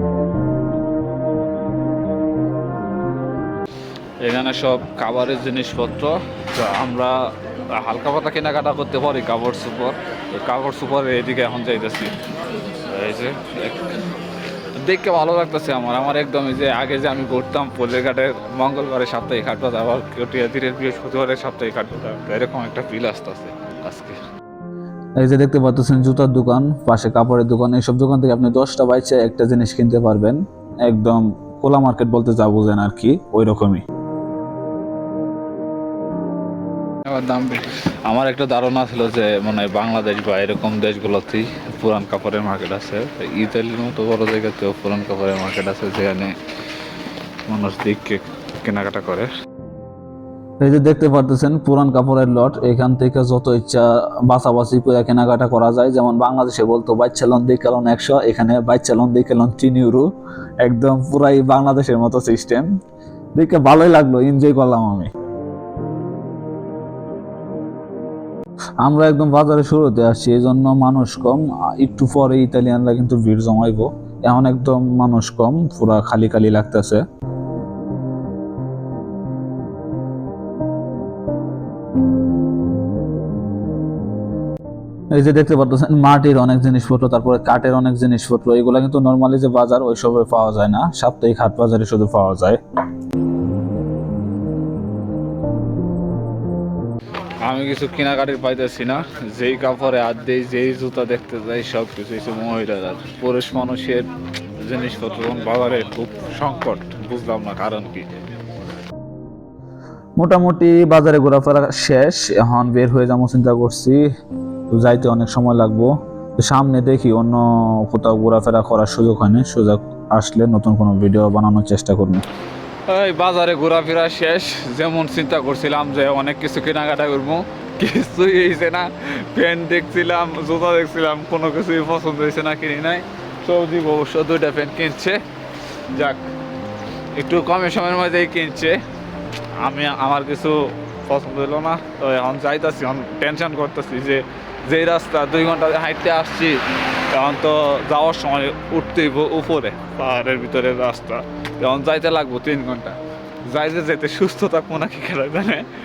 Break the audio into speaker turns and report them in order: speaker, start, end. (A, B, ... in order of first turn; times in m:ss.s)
0:04.2-0:07.1 A
0:07.8-0:12.2 A
0:12.9-0:14.1 A
0:14.8-0:24.2 A
0:25.2-0:33.8 B
0:37.0-0:46.3 A
0:47.5-0:49.3 A
0:50.6-1:00.1 B
1:00.6-1:02.7 B
1:03.4-1:05.1 B
1:08.8-1:17.0 B
1:25.1-1:32.6 B
1:37.4-1:44.1 A
1:44.6-1:48.1 A
1:50.2-1:54.0 B
1:54.7-2:02.2 B
2:02.9-2:15.2 A
2:15.9-2:16.2 A
2:17.2-2:18.8 A
2:19.6-2:35.7 A